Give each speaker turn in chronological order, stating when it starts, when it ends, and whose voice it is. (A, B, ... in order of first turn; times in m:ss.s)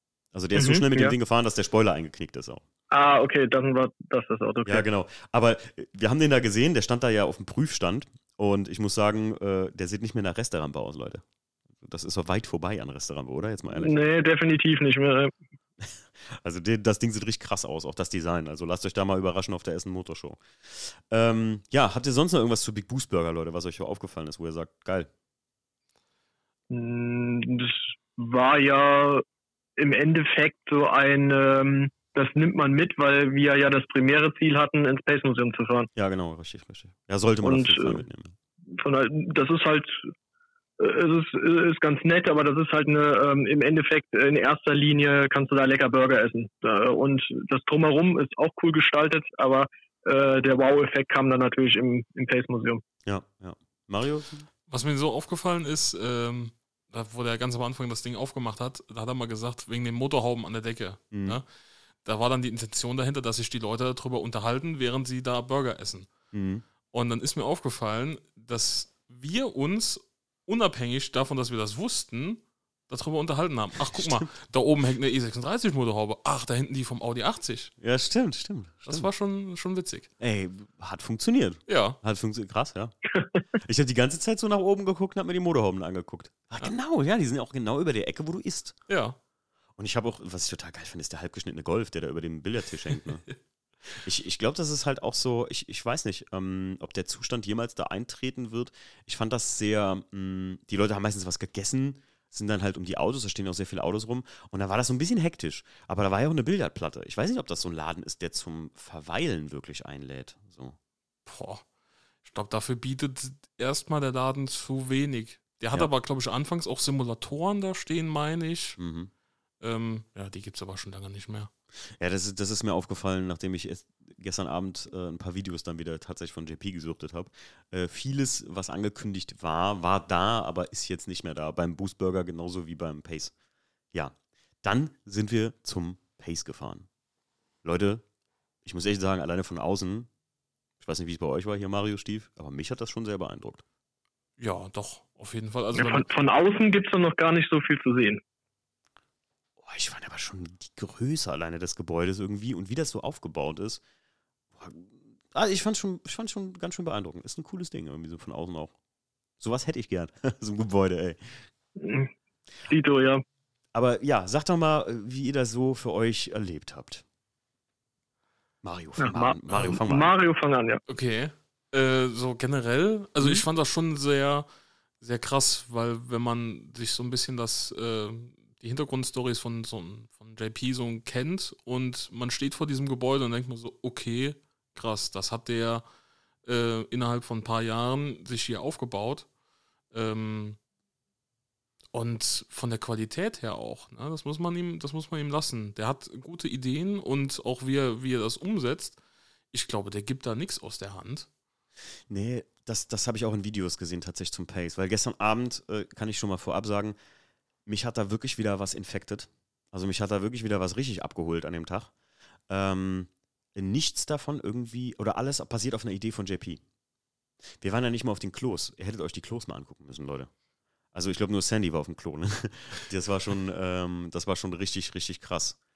0:00.3-0:02.6 A
0:00.6-0:01.1 B
0:02.9-0:04.9 B
0:04.6-0:11.2 A
0:11.8-0:13.9 A
0:13.8-0:15.3 B
0:15.8-0:25.1 A
0:26.7-0:29.2 B
0:29.8-0:35.9 B
0:36.0-0:38.4 A
0:37.4-0:38.0 B
0:38.8-0:40.1 B
0:40.8-0:52.8 B
0:53.1-0:54.5 A
0:54.7-1:01.5 C
1:01.1-1:01.4 A
1:02.0-1:06.1 C
1:06.3-1:06.6 A
1:06.9-1:17.7 C
1:17.8-1:19.1 A
1:18.8-1:20.1 C
1:20.2-1:22.9 A
1:21.7-1:22.0 C
1:23.6-1:28.8 A
1:28.9-1:29.2 C
1:29.8-1:33.3 A
1:33.9-1:50.8 A
1:51.3-1:51.7 C
1:52.2-1:58.8 C
1:58.8-1:59.1 A
1:59.6-2:01.5 C
2:02.0-2:13.3 A
2:13.9-2:16.9 A
2:17.6-2:18.0 A
2:18.6-2:20.1 A
2:20.8-2:23.6 A
2:24.4-2:26.1 C
2:25.7-2:28.2 B
2:29.6-2:33.8 A
2:34.6-2:38.7 A
2:39.4-2:41.4 A
2:41.8-2:42.1 B
2:42.7-2:43.2 B
2:43.7-2:47.0 A
2:48.6-2:50.1 A
2:49.0-2:50.8 B
2:50.9-2:54.5 C
2:55.0-3:05.8 C
3:06.4-3:09.3 C
3:09.9-3:10.6 C
3:11.9-3:19.0 C
3:19.5-3:21.3 C
3:22.1-3:27.0 A
3:27.7-3:31.9 A
3:32.5-3:36.6 A
3:37.6-3:40.3 A
3:40.9-3:45.6 A